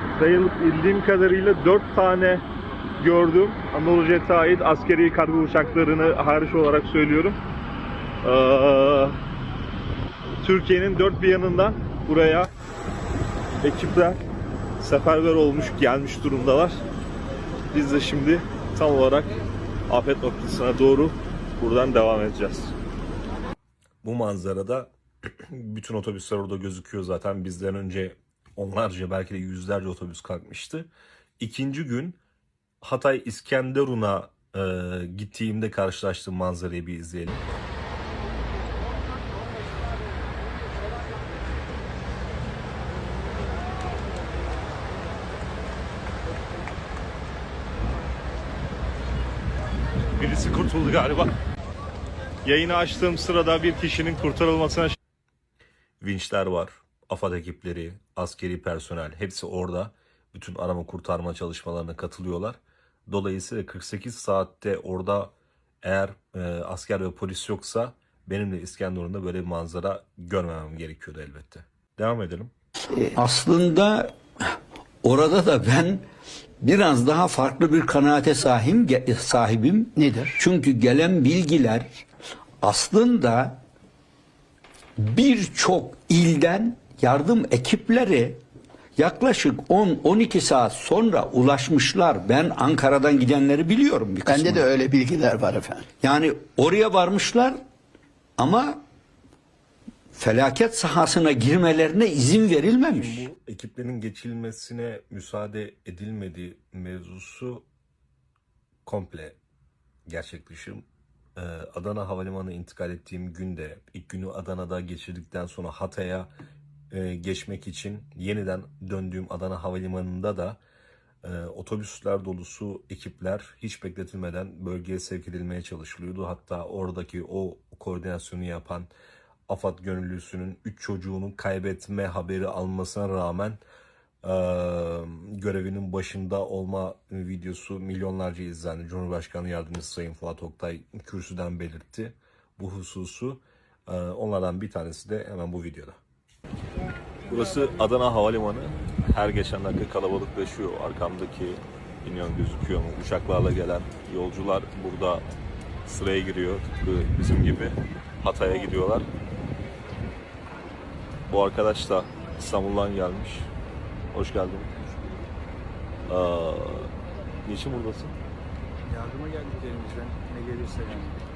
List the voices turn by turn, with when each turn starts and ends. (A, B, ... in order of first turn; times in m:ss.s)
0:00.2-0:02.4 A
0:03.0-0:07.3 A
0:08.2-0:09.1 A
0:10.4-0:12.5 A
0:13.6-0:14.2 A
0:14.8-0:16.8 A
0:17.7-0:19.3 A
0:19.9-0:22.7 A
0:24.0-0:24.9 B
0:25.5-0:32.2 B
0:32.8-0:37.4 B
0:50.2-0:51.3 B
0:52.4-0:54.9 A
0:56.0-1:12.5 B
1:12.9-1:13.2 C
1:13.1-1:14.1 D
1:15.0-1:16.0 D
1:16.6-1:22.0 D
1:20.0-1:20.4 C
1:22.6-1:23.6 D
1:25.0-1:28.4 D
1:29.0-1:34.6 D
1:34.2-1:35.8 C
1:36.0-1:37.6 D
1:38.4-1:38.8 D
1:40.1-1:43.2 D
1:42.9-1:47.6 B
1:48.8-1:49.4 B
1:50.1-1:50.8 B
1:51.4-1:56.3 B
1:56.9-2:00.6 B
2:01.2-2:08.9 B
2:09.5-2:13.6 B
2:14.2-2:26.0 B
2:27.3-2:35.2 B
2:35.8-2:39.0 B
2:41.3-2:43.5 B
2:44.1-2:44.7 B
2:46.1-2:46.9 B
2:47.4-2:48.2 B
2:48.9-2:51.2 A